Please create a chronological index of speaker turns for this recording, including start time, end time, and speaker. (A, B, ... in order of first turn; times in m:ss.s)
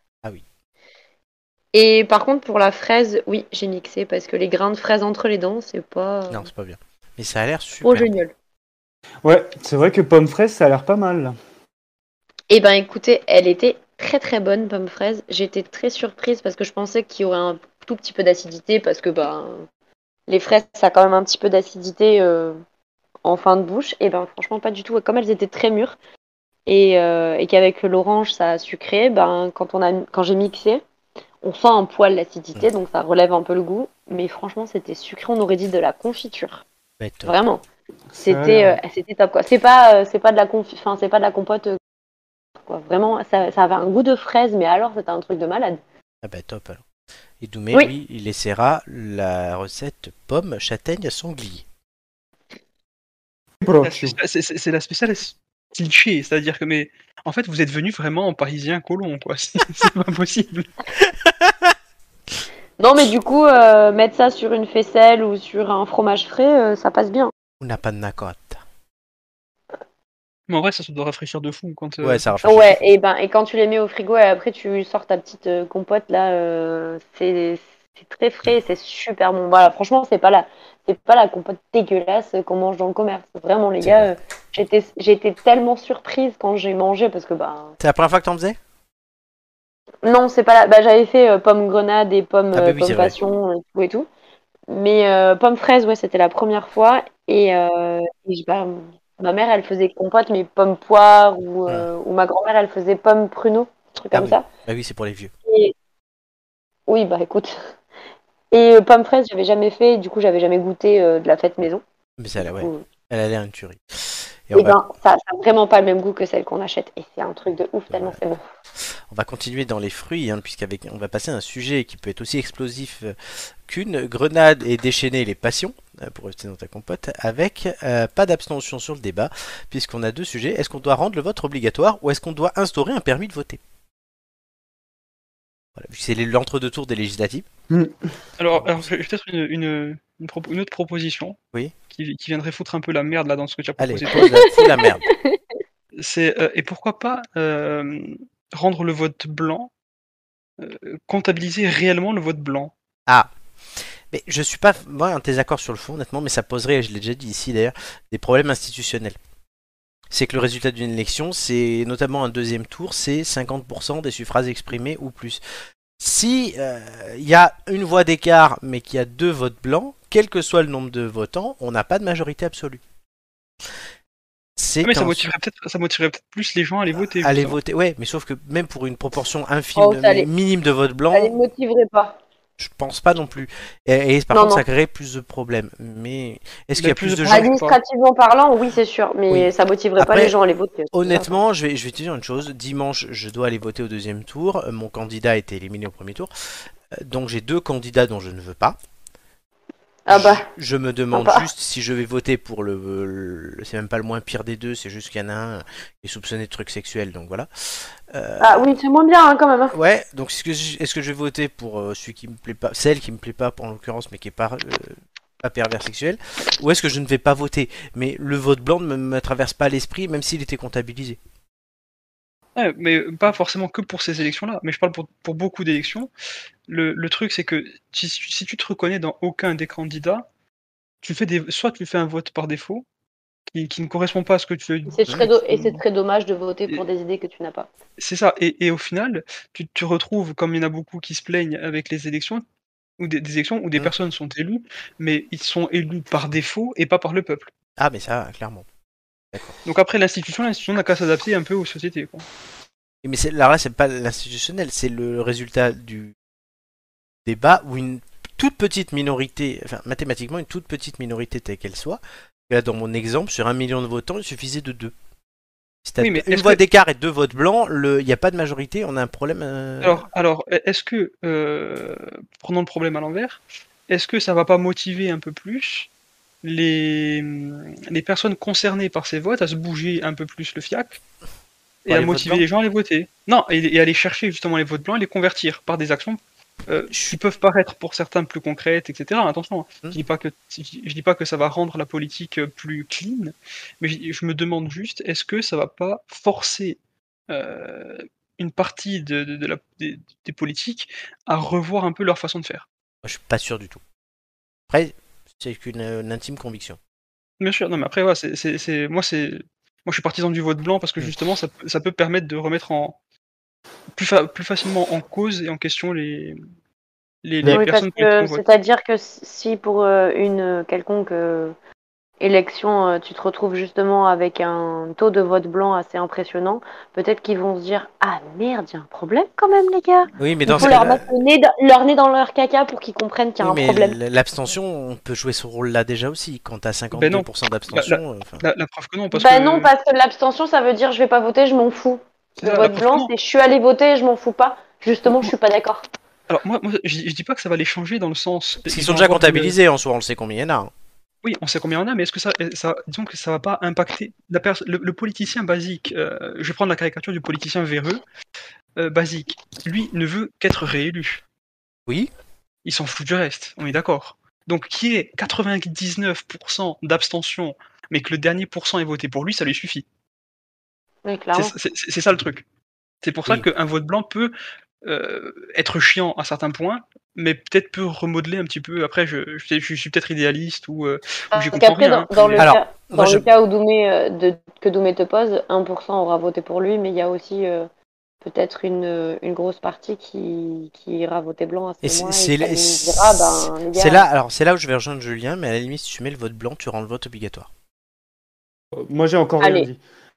0:01.7-0:06.5 A
0:06.3-0:08.1 B
0:07.8-0:08.3 A
0:09.2-0:11.3 C
0:12.5-0:19.6 A
0:20.3-0:22.6 A
0:23.2-0:26.0 A
0:26.6-0:30.8 A
0:31.4-0:36.6 A
0:37.0-0:37.3 B
0:37.2-0:37.6 A
0:38.1-0:38.8 C
0:38.2-0:41.8 A
0:42.7-0:45.8 A
0:46.2-0:46.8 B
0:47.4-0:51.6 B
0:53.6-0:54.2 C
0:53.8-1:00.7 D
1:01.0-1:01.7 B
1:02.8-1:07.3 A
1:07.6-1:08.6 B
1:10.5-1:12.3 D
1:12.0-1:12.8 B
1:12.4-1:27.7 A
1:23.8-1:24.1 B
1:27.8-1:28.6 B
1:30.0-1:34.1 A
1:32.5-1:33.1 B
1:34.7-1:44.4 A
1:44.1-1:45.3 B
1:45.5-1:45.7 A
1:46.9-1:47.6 A
1:48.5-1:51.8 A
1:52.2-1:54.8 B
1:52.4-1:52.8 A
1:54.5-1:58.4 A
1:57.9-1:58.2 B
1:59.1-2:03.1 B
2:03.6-2:13.6 B
2:15.8-2:17.5 B
2:17.7-2:18.0 C
2:18.4-2:21.4 D
2:21.9-2:24.3 D
2:23.8-2:25.0 B
2:24.1-2:25.4 A
2:26.0-2:29.7 D
2:30.6-2:32.7 D
2:34.1-2:39.2 B
2:40.1-2:45.4 B
2:46.0-2:52.8 B
2:54.6-2:55.3 B
2:54.8-2:57.6 D
2:57.2-3:01.3 B
2:59.8-3:00.3 A
3:01.1-3:02.2 A
3:02.6-3:07.5 B
3:04.3-3:04.6 A
3:06.8-3:07.8 D
3:07.3-3:11.4 A
3:09.3-3:10.4 B
3:10.9-3:16.3 B
3:17.0-3:18.8 B
3:20.0-3:20.5 A
3:20.1-3:28.7 B
3:21.1-3:21.5 A
3:28.4-3:29.7 A
3:29.7-3:41.2 B
3:42.6-3:46.1 D
3:46.7-3:50.2 D
3:51.0-3:52.8 D
3:53.5-3:55.8 D
3:54.9-3:57.7 A
3:58.0-4:02.4 D
4:03.0-4:07.5 D
4:07.8-4:08.6 B
4:09.6-4:12.2 D
4:13.0-4:16.1 B
4:17.2-4:24.9 B
4:25.8-4:30.0 B
4:26.0-4:26.6 D
4:29.8-4:35.9 D
4:36.4-4:41.0 D
4:41.8-4:56.8 D
4:41.9-4:42.4 B
4:57.3-5:02.6 D
5:03.0-5:03.8 B
5:04.7-5:06.8 B
5:07.4-5:13.0 D
5:13.9-5:16.4 D
5:17.2-5:18.4 D
5:17.5-5:21.5 A
5:22.2-5:34.0 A
5:30.2-5:31.0 B
5:33.4-5:38.4 B
5:36.9-5:39.7 D
5:39.1-5:45.8 A
5:42.4-5:43.1 D
5:46.3-5:49.5 D
5:48.7-5:50.7 B
5:51.2-5:58.0 D
5:58.8-6:01.2 D
6:02.6-6:09.8 D
6:11.0-6:11.5 A
6:11.3-6:12.4 D
6:13.0-6:14.3 D
6:14.8-6:22.5 D
6:21.3-6:27.7 A
6:22.4-6:23.3 B
6:28.2-6:34.0 A
6:31.8-6:37.5 B
6:38.9-6:39.8 C
6:39.4-6:39.7 A